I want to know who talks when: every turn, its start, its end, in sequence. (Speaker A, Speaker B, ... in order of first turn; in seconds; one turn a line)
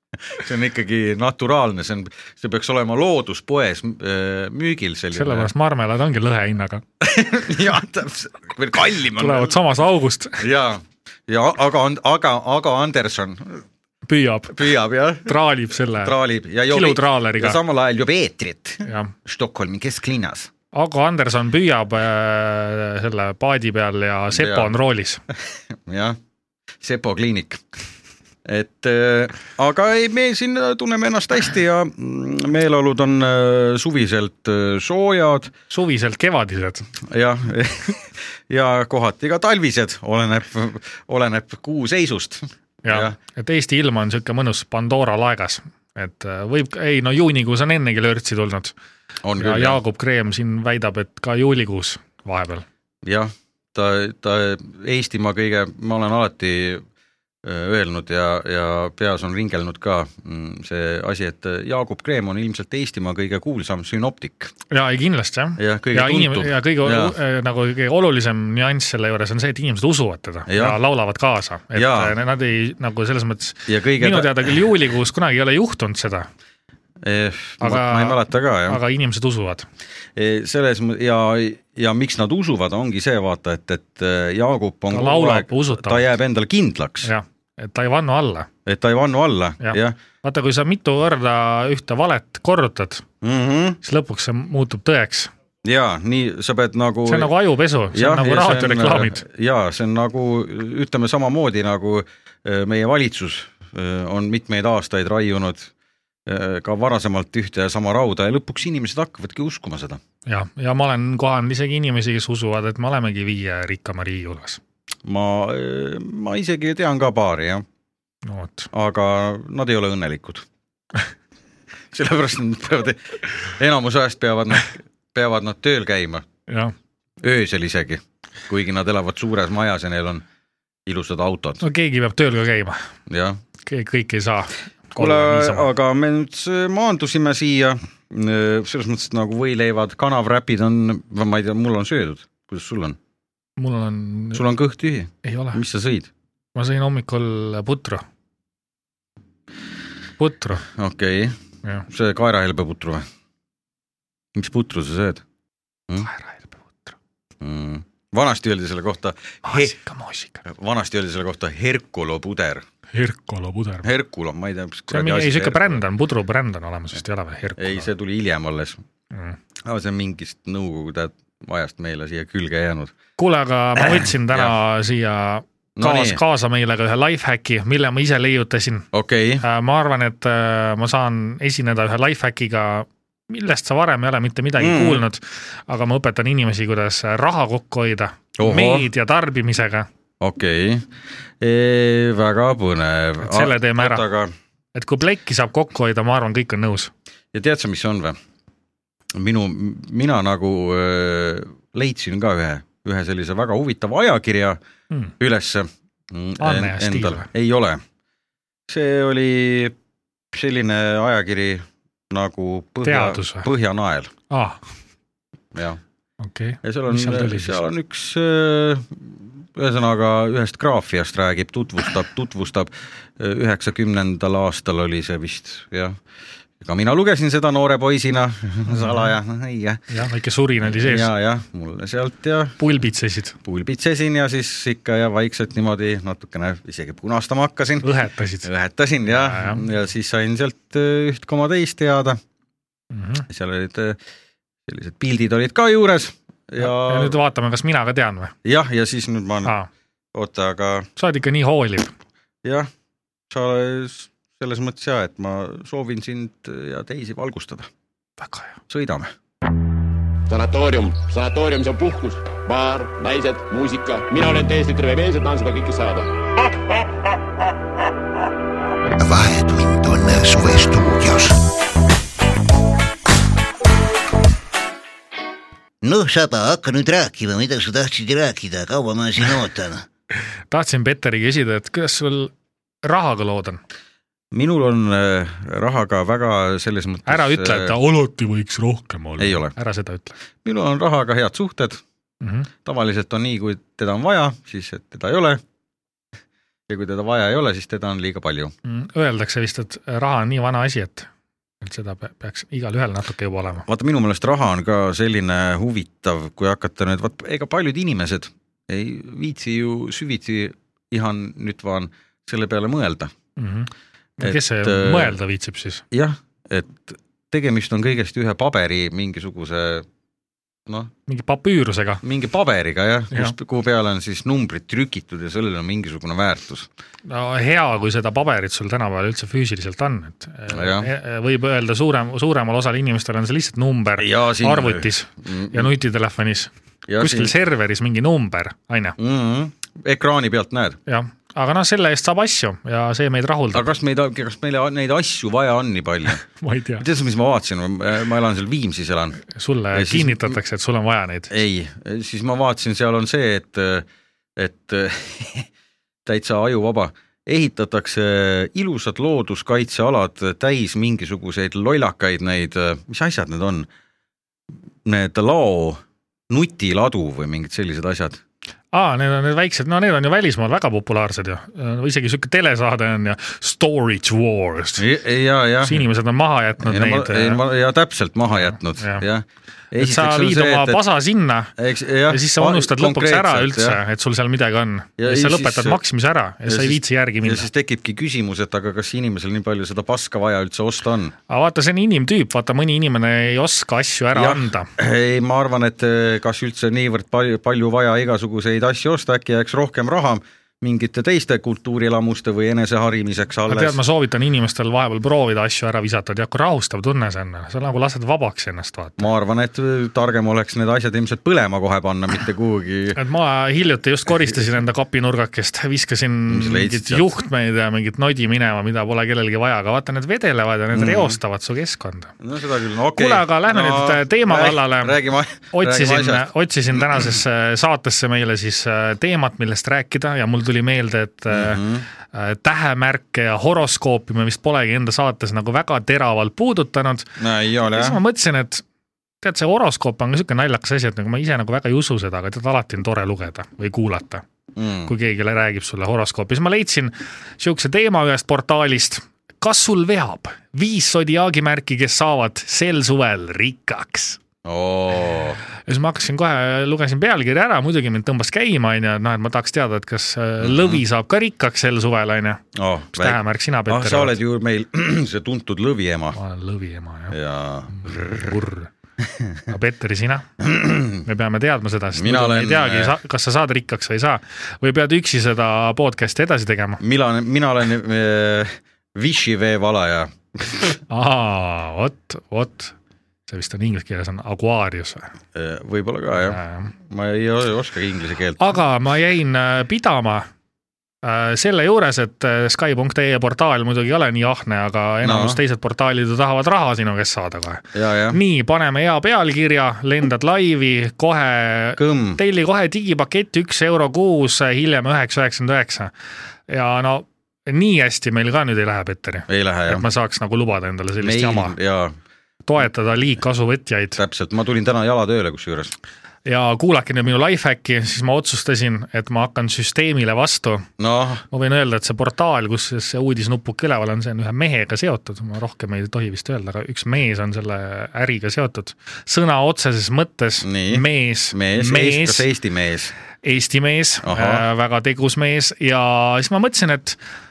Speaker A: 0.3-5.5
Speaker B: 5.1-6.8
Speaker A: 7.0-9.6
Speaker B: 9.2-10.4
Speaker A: 10.4-13.7
Speaker B: 14.1-14.7
Speaker A: 14.5-15.4
Speaker B: 15.2-16.1
Speaker A: 16.0-20.5
Speaker B: 16.7-17.6
Speaker B: 18.8-19.1
Speaker B: 20.7-25.2
Speaker A: 24.3-24.7
Speaker A: 25.7-26.2
Speaker A: 26.8-27.6
Speaker A: 28.4-35.5
Speaker B: 35.7-36.9
Speaker A: 37.0-43.1
Speaker B: 42.9-48.8
Speaker A: 49.2-49.8
Speaker B: 49.4-52.6
Speaker A: 53.0-56.8
Speaker A: 57.4-64.5
Speaker B: 64.7-76.3
Speaker A: 65.6-67.1
Speaker A: 70.5-70.8
Speaker A: 71.8-72.1
Speaker A: 73.7-74.5
Speaker A: 77.0-78.8
Speaker B: 77.6-79.7
Speaker A: 80.2-87.1
Speaker B: 84.9-86.1
Speaker B: 87.0-88.5
Speaker A: 88.7-90.0
Speaker B: 89.6-93.0
Speaker A: 93.2-93.8
Speaker B: 93.8-95.3
Speaker A: 95.6-97.3
Speaker B: 97.1-99.2
Speaker A: 97.9-105.7
Speaker A: 106.3-110.0
Speaker B: 110.3-114.6
Speaker A: 115.0-117.7
Speaker B: 118.3-118.7
Speaker A: 118.7-120.5
Speaker A: 121.9-126.3
Speaker B: 126.5-126.7
Speaker A: 127.2-130.2
Speaker A: 130.9-131.6
Speaker B: 131.6-132.8
Speaker A: 133.1-133.4
Speaker B: 133.6-135.7
Speaker A: 135.0-143.0
Speaker B: 143.6-144.4
Speaker A: 144.3-146.1
Speaker B: 145.2-145.6
Speaker B: 146.6-148.0
Speaker B: 150.2-150.7
Speaker A: 150.7-151.4
Speaker A: 151.9-153.1
Speaker A: 154.3-155.2
Speaker B: 156.0-156.9
Speaker A: 157.4-159.8
Speaker B: 159.4-160.4
Speaker A: 160.4-162.7
Speaker B: 162.9-163.9
Speaker A: 163.8-165.8
Speaker B: 164.9-167.9
Speaker A: 167.6-168.8
Speaker A: 169.6-172.9
Speaker B: 173.2-178.9
Speaker A: 173.8-174.6
Speaker A: 175.8-176.2
Speaker A: 178.9-179.4
Speaker B: 179.4-189.9
Speaker A: 184.6-185.0
Speaker A: 188.4-188.9
Speaker A: 190.2-190.9
Speaker A: 191.4-194.3
Speaker B: 193.2-194.1
Speaker B: 194.7-196.9
Speaker A: 197.3-198.2
Speaker A: 199.2-204.6
Speaker A: 205.2-207.8
Speaker B: 206.4-207.3
Speaker A: 208.7-209.8
Speaker A: 210.3-214.1
Speaker B: 212.8-213.5
Speaker B: 214.3-214.6
Speaker A: 215.6-215.8
Speaker B: 216.2-217.6
Speaker A: 216.6-226.0
Speaker A: 226.6-229.8
Speaker B: 228.7-229.1
Speaker B: 229.9-231.1
Speaker A: 230.7-232.6
Speaker B: 232.6-233.4
Speaker A: 233.5-237.9
Speaker B: 237.8-238.5
Speaker A: 238.4-242.2
Speaker B: 239.1-239.6
Speaker B: 242.9-243.2
Speaker A: 243.3-244.0
Speaker A: 244.7-247.2
Speaker B: 246.6-248.3
Speaker A: 248.4-249.5
Speaker A: 250.1-250.9
Speaker B: 251.0-251.9
Speaker A: 252.4-252.7
Speaker A: 253.3-257.7
Speaker B: 258.2-258.6
Speaker A: 258.7-259.1
Speaker C: 260.3-266.1
Speaker D: 269.0-271.4
Speaker D: 275.8-279.8
Speaker B: 280.5-282.3
Speaker B: 282.8-283.6
Speaker A: 284.3-287.8
Speaker B: 287.1-290.2
Speaker A: 289.2-289.6
Speaker A: 290.4-291.8
Speaker B: 292.2-292.5
Speaker A: 292.6-295.4
Speaker A: 296.7-298.5
Speaker B: 298.6-301.1
Speaker B: 301.6-303.6
Speaker A: 303.7-313.1
Speaker B: 313.4-315.8
Speaker A: 314.2-315.2
Speaker A: 315.9-319.9
Speaker B: 321.1-322.0
Speaker A: 322.0-326.7
Speaker B: 327.1-339.0
Speaker A: 330.5-330.9
Speaker A: 334.0-335.7
Speaker A: 336.9-337.3
Speaker A: 339.0-340.8
Speaker B: 340.9-343.7
Speaker A: 343.5-346.2
Speaker B: 346.3-346.9
Speaker A: 346.8-349.2
Speaker B: 349.3-351.3
Speaker A: 349.7-350.4
Speaker A: 351.3-355.5
Speaker A: 356.1-363.7
Speaker A: 364.9-368.2
Speaker B: 368.7-374.9
Speaker A: 374.8-375.8
Speaker B: 375.6-377.4
Speaker A: 376.6-380.8
Speaker B: 378.8-379.1
Speaker B: 379.8-381.5
Speaker A: 381.6-383.8
Speaker B: 382.1-387.5
Speaker A: 385.0-385.8
Speaker A: 386.5-391.1
Speaker B: 391.3-394.7
Speaker A: 394.1-403.8
Speaker B: 403.5-409.1
Speaker A: 409.0-413.0
Speaker B: 413.0-422.1
Speaker A: 416.3-417.1
Speaker A: 420.7-421.2
Speaker A: 422.2-427.2
Speaker B: 422.9-425.0
Speaker B: 425.5-437.2
Speaker A: 431.3-431.9
Speaker A: 437.2-438.0
Speaker B: 437.7-438.6
Speaker B: 439.2-444.2
Speaker A: 444.6-444.9
Speaker B: 444.9-454.2
Speaker A: 454.4-455.4
Speaker B: 455.7-462.4
Speaker A: 460.4-460.8
Speaker A: 462.5-466.2
Speaker B: 462.9-464.2
Speaker B: 466.1-467.2
Speaker A: 467.1-468.4
Speaker B: 467.7-468.7
Speaker A: 469.1-469.4
Speaker B: 469.5-470.3
Speaker A: 470.4-471.1
Speaker B: 471.0-476.8
Speaker A: 471.9-473.0
Speaker A: 476.8-480.8
Speaker B: 480.9-482.7
Speaker B: 483.3-485.1
Speaker A: 485.3-488.5
Speaker B: 486.2-486.7
Speaker B: 488.4-490.3
Speaker B: 491.0-505.9
Speaker A: 495.0-495.4
Speaker A: 497.7-498.2
Speaker A: 501.8-502.2
Speaker B: 506.5-511.6
Speaker A: 509.3-509.9
Speaker A: 511.0-512.0
Speaker B: 512.5-514.0
Speaker A: 514.0-515.7
Speaker B: 516.3-520.7
Speaker A: 520.8-521.2
Speaker B: 521.3-532.2
Speaker A: 530.4-532.9
Speaker B: 533.2-537.0
Speaker A: 534.0-534.5